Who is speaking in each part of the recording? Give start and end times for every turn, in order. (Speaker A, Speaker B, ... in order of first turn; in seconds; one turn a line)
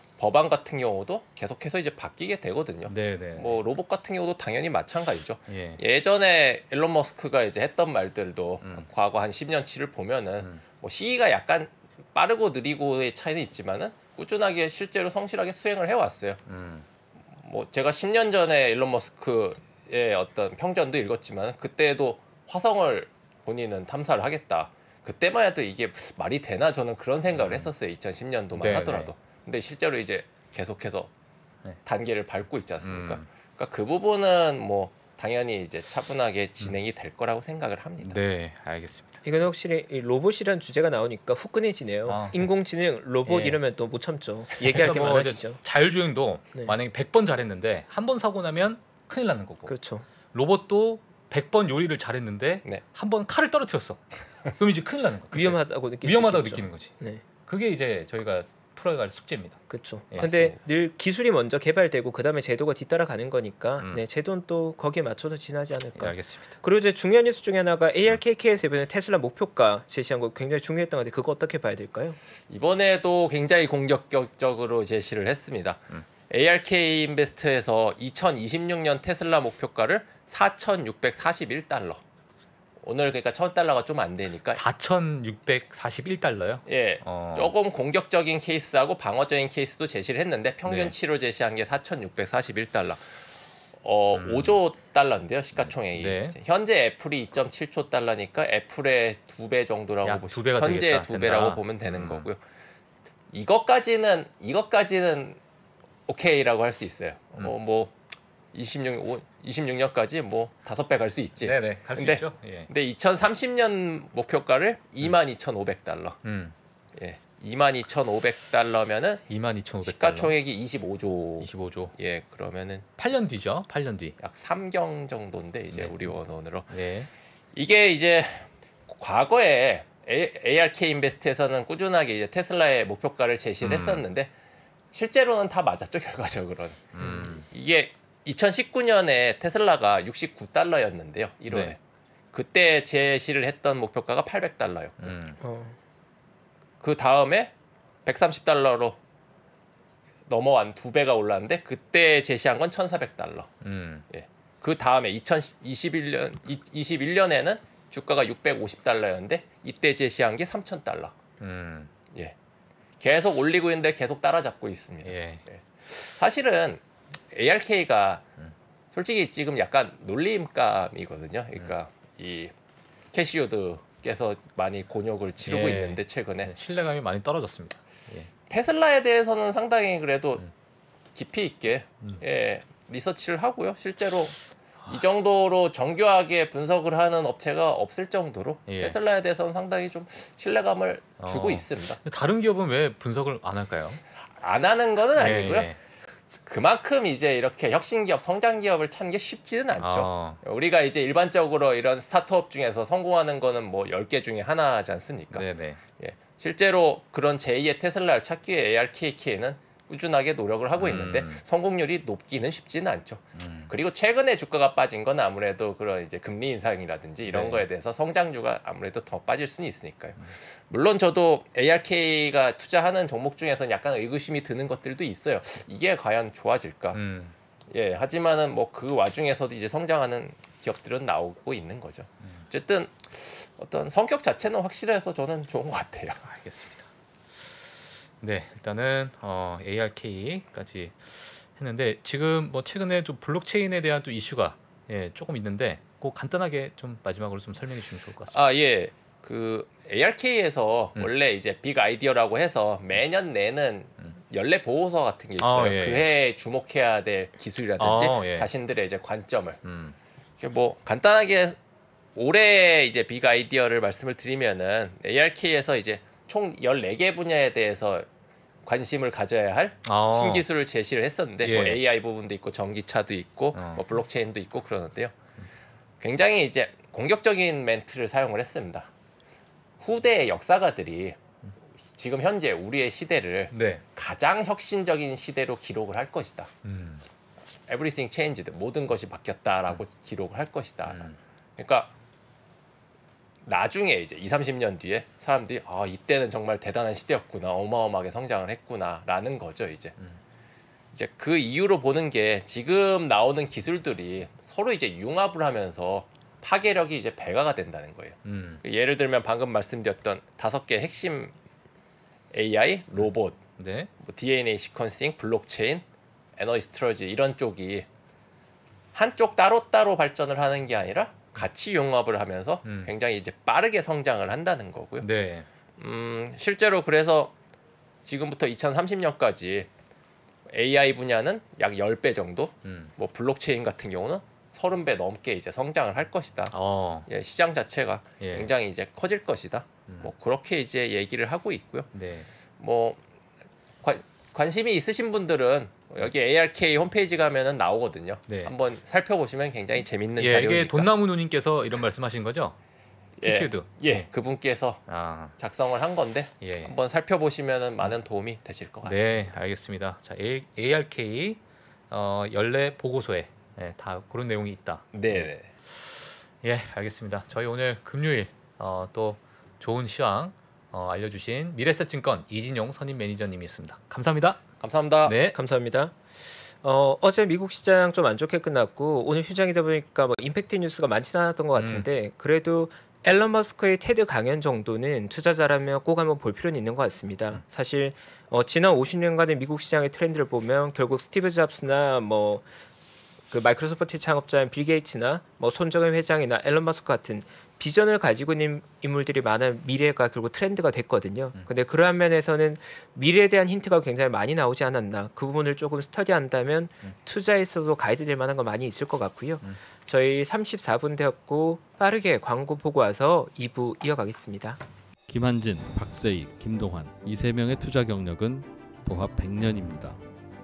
Speaker A: 0.2-16.4
Speaker B: 2.9-3.6
Speaker B: 5.5-5.8
Speaker B: 8.6-8.9
Speaker B: 16.5-16.9
Speaker A: 17.4-31.1
Speaker B: 27.4-27.7
Speaker B: 28.5-29.1
Speaker A: 31.9-38.2
Speaker B: 32.8-33.2
Speaker B: 38.0-39.2
Speaker C: 39.2-45.6
Speaker B: 42.1-42.5
Speaker B: 43.3-43.6
Speaker B: 44.6-49.7
Speaker C: 49.7-50.0
Speaker B: 50.3-54.0
Speaker B: 54.5-60.4
Speaker C: 55.3-57.2
Speaker C: 59.7-72.2
Speaker A: 60.2-60.5
Speaker B: 66.0-66.5
Speaker A: 72.5-82.0
Speaker A: 82.8-84.6
Speaker B: 84.5-87.5
Speaker A: 86.7-93.2
Speaker B: 90.7-91.0
Speaker A: 93.8-102.4
Speaker B: 94.2-94.6
Speaker B: 95.7-96.4
Speaker B: 100.0-102.3
Speaker A: 103.3-105.4
Speaker A: 106.1-107.9
Speaker A: 108.5-116.2
Speaker B: 111.4-112.7
Speaker B: 116.2-116.5
Speaker A: 117.0-119.3
Speaker B: 119.3-120.3
Speaker A: 119.8-122.9
Speaker B: 121.4-121.9
Speaker B: 123.0-124.2
Speaker A: 124.2-126.7
Speaker B: 125.7-126.1
Speaker B: 126.7-127.1
Speaker A: 127.5-134.3
Speaker B: 133.6-134.1
Speaker A: 134.9-141.8
Speaker B: 136.9-137.5
Speaker B: 141.5-141.8
Speaker A: 142.3-145.2
Speaker B: 145.0-145.4
Speaker C: 145.4-145.8
Speaker A: 146.8-147.5
Speaker A: 148.1-149.0
Speaker A: 150.3-153.5
Speaker B: 153.6-154.1
Speaker A: 154.1-161.2
Speaker B: 161.4-161.9
Speaker A: 163.0-166.8
Speaker B: 165.0-165.4
Speaker A: 167.3-168.3
Speaker A: 168.9-172.5
Speaker A: 173.1-176.5
Speaker B: 175.4-178.3
Speaker A: 178.5-180.5
Speaker A: 181.2-192.0
Speaker B: 188.7-189.0
Speaker B: 191.2-194.0
Speaker A: 194.3-195.7
Speaker B: 195.2-195.8
Speaker A: 196.5-205.5
Speaker B: 199.8-200.4
Speaker B: 205.3-205.8
Speaker A: 206.0-227.0
Speaker B: 210.8-211.4
Speaker B: 213.3-213.7
Speaker B: 217.3-217.7
Speaker B: 226.9-227.3
Speaker A: 227.7-236.2
Speaker B: 236.2-248.4
Speaker A: 248.3-259.6
Speaker B: 255.4-256.1
Speaker B: 257.8-258.5
Speaker B: 259.6-260.0
Speaker A: 260.4-261.6
Speaker A: 262.2-268.1
Speaker A: 268.6-275.1
Speaker B: 269.9-270.5
Speaker B: 271.4-271.8
Speaker B: 273.5-273.8
Speaker A: 276.0-278.9
Speaker A: 279.8-281.2
Speaker A: 281.9-286.5
Speaker B: 283.5-283.8
Speaker B: 286.6-287.0
Speaker A: 287.7-291.9
Speaker B: 290.9-291.2
Speaker A: 293.4-299.9
Speaker A: 300.9-311.3
Speaker B: 308.2-308.6
Speaker A: 312.3-313.4
Speaker B: 313.6-313.9
Speaker A: 314.0-315.9
Speaker A: 316.4-317.9
Speaker A: 318.9-325.1
Speaker B: 322.6-322.9
Speaker B: 325.0-325.5
Speaker A: 325.8-327.3
Speaker A: 328.1-329.7
Speaker A: 330.5-336.6
Speaker B: 332.6-332.9
Speaker B: 336.5-337.1
Speaker A: 337.1-341.9
Speaker B: 338.2-338.5
Speaker B: 339.9-340.1
Speaker B: 341.9-342.3
Speaker A: 342.6-343.0
Speaker A: 343.8-350.9
Speaker B: 348.3-348.6
Speaker B: 350.2-352.6
Speaker A: 353.2-359.4
Speaker B: 353.2-354.1
Speaker B: 354.9-355.3
Speaker B: 356.4-356.8
Speaker B: 358.8-374.4
Speaker A: 364.9-365.5
Speaker A: 374.6-375.2
Speaker B: 375.1-375.4
Speaker C: 375.3-392.5
Speaker B: 381.6-381.9
Speaker C: 393.3-414.6
Speaker D: 415.1-420.0